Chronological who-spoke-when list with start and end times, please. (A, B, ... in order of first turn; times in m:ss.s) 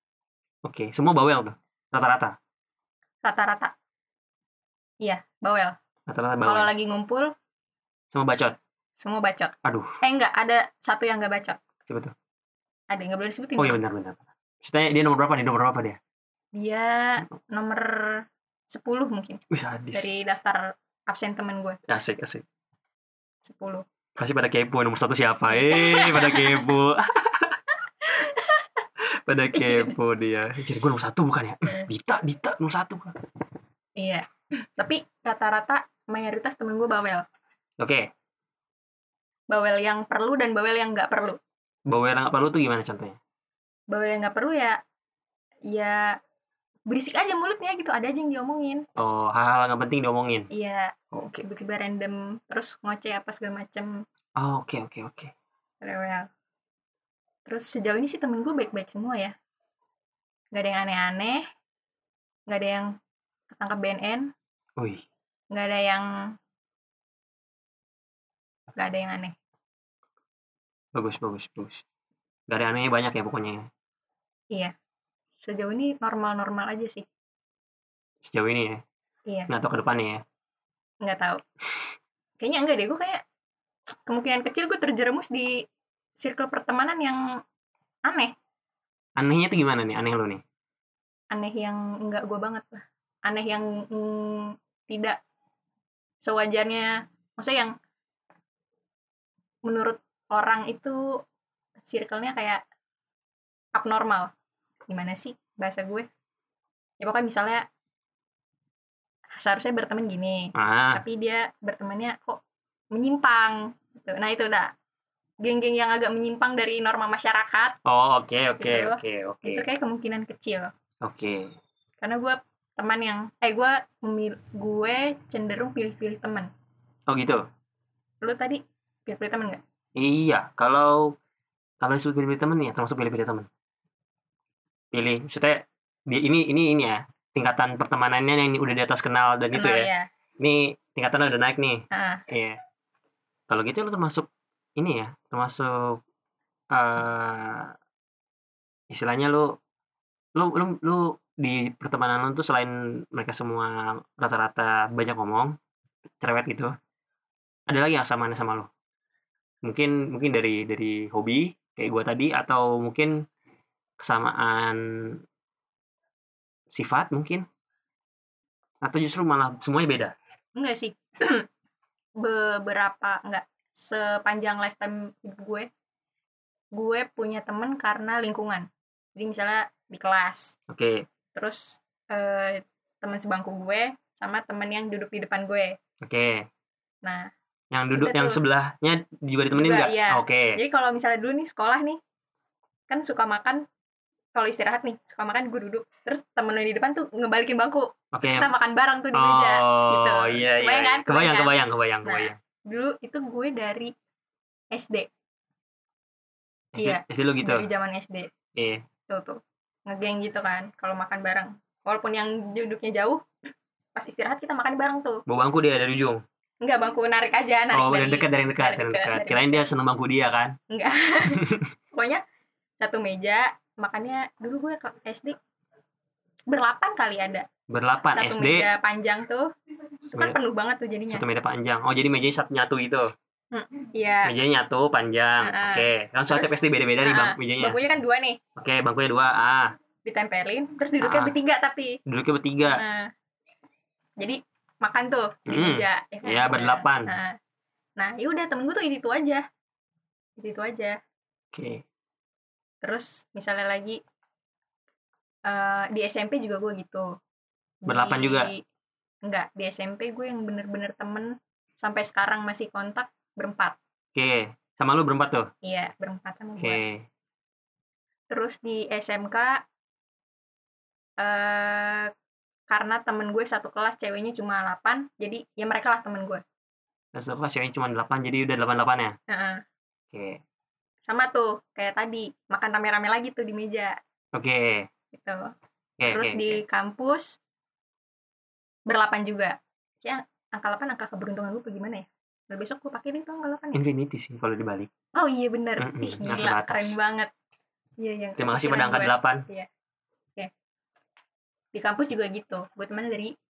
0:00.6-0:02.4 A
0:03.2-0:03.7 B
0:05.0-0:05.7 B
0:06.1-0:06.7 A
0:06.4-0:07.3 B
0:08.1-0:08.6 A
0:09.0-0:11.6 B
0:09.6-0:10.0 A
0:11.9-0:12.1 A
0:12.9-0:13.8 B
0:13.6-0:16.0 A
0:16.5-0:19.4 B
0:19.5-0:20.1 A
0:19.9-0:21.8 B
0:21.9-0:22.4 A
0:23.4-0:23.8 B
0:24.2-0:27.6 A
0:25.5-0:26.7 B
0:28.0-0:28.8 B
0:29.0-0:33.2 A
0:29.5-0:29.9 B
0:34.0-0:37.2 B
0:37.8-0:38.1 A
0:39.5-0:41.4 B
0:41.9-0:43.2 A
0:43.9-0:44.8 B
0:45.7-0:46.2 B
0:46.9-0:48.8 B
0:49.0-0:50.5 A
0:50.5-0:54.0 B
0:51.1-0:51.4 A
0:54.4-0:55.3 A
0:55.8-0:56.3 B
0:57.4-0:59.3 B
1:00.5-1:01.4 B
1:02.5-1:02.9 B
1:03.5-1:04.3 B
1:04.8-1:05.0 A
1:05.5-1:06.1 B
1:08.8-1:09.4 B
1:10.9-1:11.8 A
1:12.5-1:13.7 A
1:15.4-1:17.0 B
1:18.2-1:18.8 A
1:19.5-1:20.2 A
1:21.0-1:21.4 B
1:22.4-1:23.2 B
1:24.0-1:25.6 B
1:26.2-1:27.2 B
1:28.1-1:28.3 B
1:29.2-1:30.4 A
1:31.3-1:35.2 B
1:36.2-1:37.7 B
1:39.6-1:41.0 B
1:41.8-1:42.6 B
1:43.7-1:44.3 B
1:44.9-1:46.1 B
1:47.0-1:47.6 B
1:49.4-1:52.4 B
1:50.5-1:51.0 A
1:52.9-1:54.7 B
1:55.4-1:57.8 B
1:57.8-1:59.6 A
1:58.6-2:00.7 B
2:01.0-2:01.5 A
2:02.0-2:06.5 B
2:07.1-2:07.4 A
2:08.2-2:09.6 B
2:10.0-2:11.1 A
2:11.8-2:13.5 A
2:14.9-2:19.9 A
2:19.5-2:20.1 B
2:20.4-2:22.6 A
2:21.9-2:22.2 B
2:23.5-2:26.0 A
2:26.7-2:27.7 A
2:28.9-2:29.6 A
2:30.3-2:35.6 A
2:36.2-2:36.7 A
2:37.7-2:38.7 A
2:39.6-2:43.2 A
2:44.0-2:45.2 A
2:46.7-2:47.4 A
2:48.8-2:50.1 A
2:50.6-2:51.4 B
2:52.2-2:55.7 B
2:56.7-3:00.6 B
3:00.7-3:01.0 A
3:01.3-3:05.8 B
3:06.0-3:06.5 A
3:07.0-3:07.3 B
3:07.7-3:10.6 A
3:07.9-3:08.4 B
3:09.5-3:12.0 B
3:12.9-3:13.6 B
3:14.3-3:21.5 B
3:18.1-3:18.5 A
3:19.1-3:22.4 A
3:22.0-3:23.9 B
3:24.7-3:25.1 B
3:26.7-3:27.7 A
3:26.8-3:28.3 B
3:28.5-3:28.8 A
3:29.1-3:33.2 B
3:33.9-3:35.2 B
3:35.3-3:36.2 A
3:36.6-3:39.7 B
3:37.7-3:40.6 A
3:40.7-3:42.2 B
3:41.4-3:41.7 A
3:42.8-3:45.4 B
3:46.5-3:47.4 B
3:47.7-3:48.7 A
3:48.1-3:49.5 B
3:50.1-3:51.2 B
3:51.1-3:53.1 A
3:53.5-3:54.3 B
3:54.2-3:57.8 A
3:55.4-3:58.4 B
3:58.6-3:59.7 A
4:00.0-4:02.0 B
4:01.0-4:01.3 A
4:02.0-4:02.8 A
4:02.6-4:03.1 B
4:04.2-4:07.4 B
4:05.5-4:07.1 A
4:08.0-4:09.4 B
4:10.4-4:11.0 B
4:11.5-4:11.8 A
4:12.8-4:14.0 B
4:15.4-4:17.1 B
4:17.8-4:18.6 B
4:17.9-4:18.5 A
4:19.2-4:23.8 B
4:24.1-4:25.5 A
4:25.6-4:26.8 B
4:26.6-4:27.0 A
4:28.3-4:29.6 B
4:31.2-4:32.1 B
4:32.7-4:36.4 B
4:37.1-4:39.2 A
4:39.3-4:39.6 B
4:40.1-4:40.4 A
4:41.0-4:44.0 B
4:44.3-4:44.9 A
4:45.1-4:45.5 B
4:46.0-4:46.6 A
4:46.1-4:47.4 B
4:48.9-4:53.8 B
4:53.7-4:54.9 A
4:55.1-4:57.3 B
4:55.8-4:57.0 A
4:58.0-4:59.7 B
4:58.4-4:59.4 A
5:01.7-5:03.3 B